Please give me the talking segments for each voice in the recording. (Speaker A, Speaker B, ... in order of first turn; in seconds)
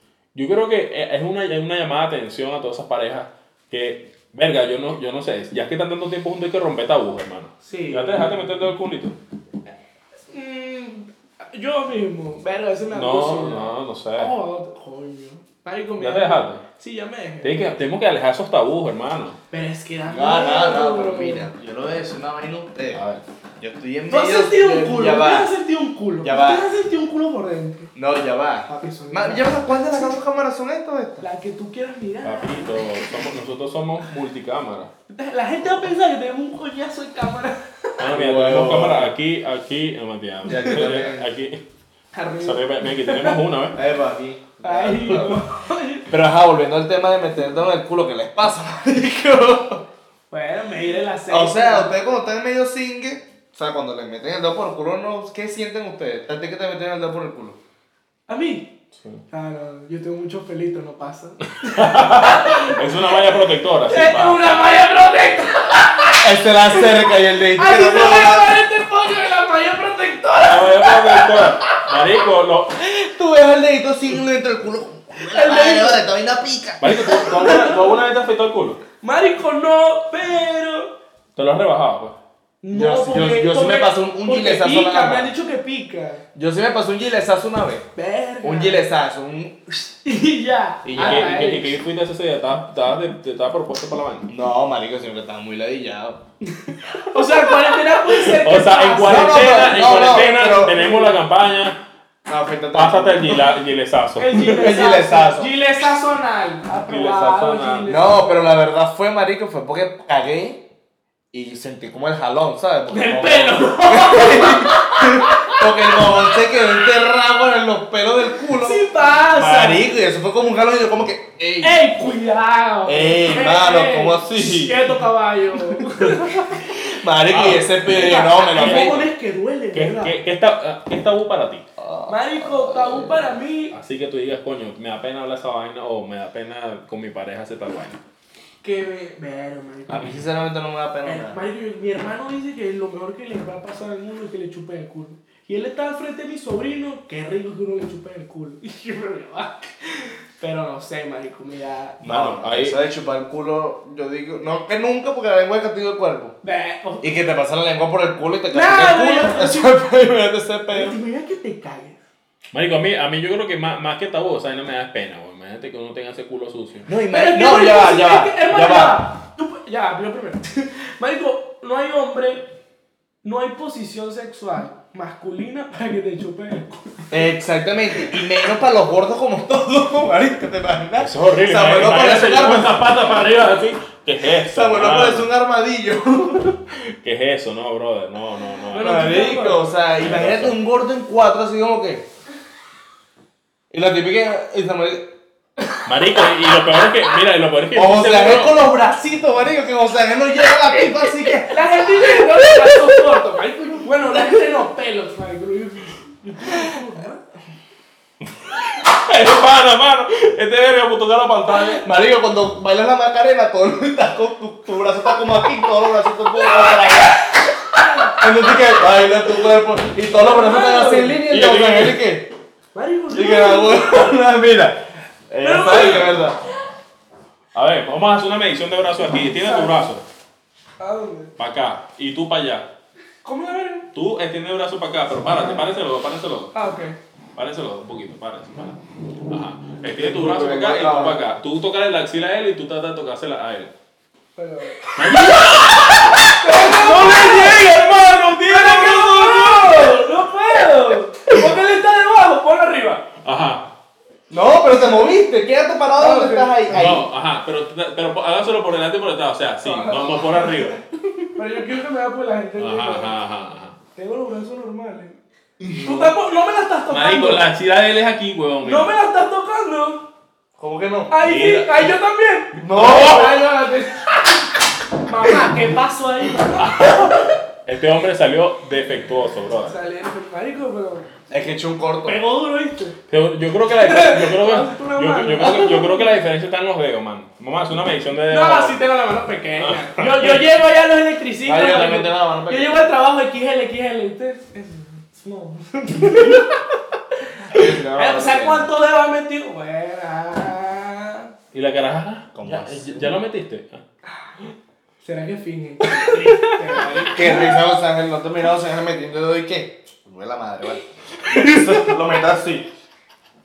Speaker A: 0.3-9.2, 12.9-14.3, 16.0-16.6, 17.4-19.4, 22.9-23.2, 32.2-34.9, 38.0-41.6, 42.4-43.8, 61.7-64.6, 70.4-72.7, 76.8-78.8, 81.4-82.2, 90.9-94.3, 98.3-101.8, 102.7-104.7, 106.9-107.9, 127.3-127.8, 128.5-129.1, 129.7-131.7, 133.7-138.0, 152.0-152.8, 162.5-166.9, 181.0-185.3, 187.0-189.4, 190.0-190.6, 195.8-198.6, 208.7-211.8, 221.3-222.0, 227.5-230.0, 231.4-232.7, 233.9-236.5, 237.4-243.7, 245.0-250.1, 253.2-253.7, 256.7-260.8, 262.6-263.8, 265.6-266.1, 266.9-268.9, 271.2-271.9, 272.7-273.3, 277.7-279.8, 283.1-288.8, 289.6-290.4, 301.5-303.8
Speaker B: 7.6-8.3, 10.3-17.7, 19.5-21.5, 24.1-27.9, 28.7-30.1, 31.2-32.8, 35.1-38.0, 42.1-43.4, 44.6-46.1, 50.3-52.0, 58.3-58.7, 59.3-63.3, 63.9-71.5, 75.2-76.0, 77.2-77.9, 79.0-80.9, 82.6-86.2, 88.0-88.8, 90.0-91.8, 96.5-101.2, 104.2-108.3, 112.9-116.6, 118.5-119.8, 121.6-126.6, 127.9-130.2, 132.1-133.8, 138.6-140.2, 141.1-152.0, 156.4-157.1, 158.5-159.8, 160.7-162.0, 167.1-172.5, 173.2-177.3, 188.7-189.8, 201.4-207.2, 220.1-221.2, 222.8-224.1, 225.4-226.2, 229.3-229.8, 230.8-231.3, 233.2-233.9, 236.5-237.0, 244.4-245.2, 246.3-253.1, 256.0-256.8, 259.6-260.7, 261.4-263.1, 264.0-265.2, 265.8-267.4, 268.6-270.1, 271.1-274.4, 275.0-277.3, 279.7-281.1, 282.1-282.9, 283.8-286.1, 288.3-296.6, 297.5-301.3, 305.0-307.5
Speaker C: 20.1-23.0, 23.6-25.5, 26.2-26.7, 27.9-31.2, 38.1-39.1, 40.5-41.3, 43.8-45.4, 46.1-49.8, 51.3-57.6, 66.2-68.5, 72.8-77.6, 82.7-85.3, 86.3-87.9, 88.4-89.6, 90.8-91.5, 94.3-96.2, 99.0-100.8, 102.3-103.5, 104.5-105.5, 107.9-110.6, 111.3-122.0, 122.8-125.0, 126.0-129.1, 131.8-133.3, 139.9-141.4, 152.0-156.4, 157.0-161.0, 166.9-169.1, 177.1-183.0, 184.4-186.6, 188.8-192.1, 193.7-195.1, 197.8-201.6, 211.8-217.4, 218.1-222.3, 223.1-226.4, 239.9-241.2, 254.3-257.1, 270.6-271.1, 272.6-273.4, 281.3-282.2, 291.4-292.9, 297.4-298.7, 302.4-303.1, 307.0-312.7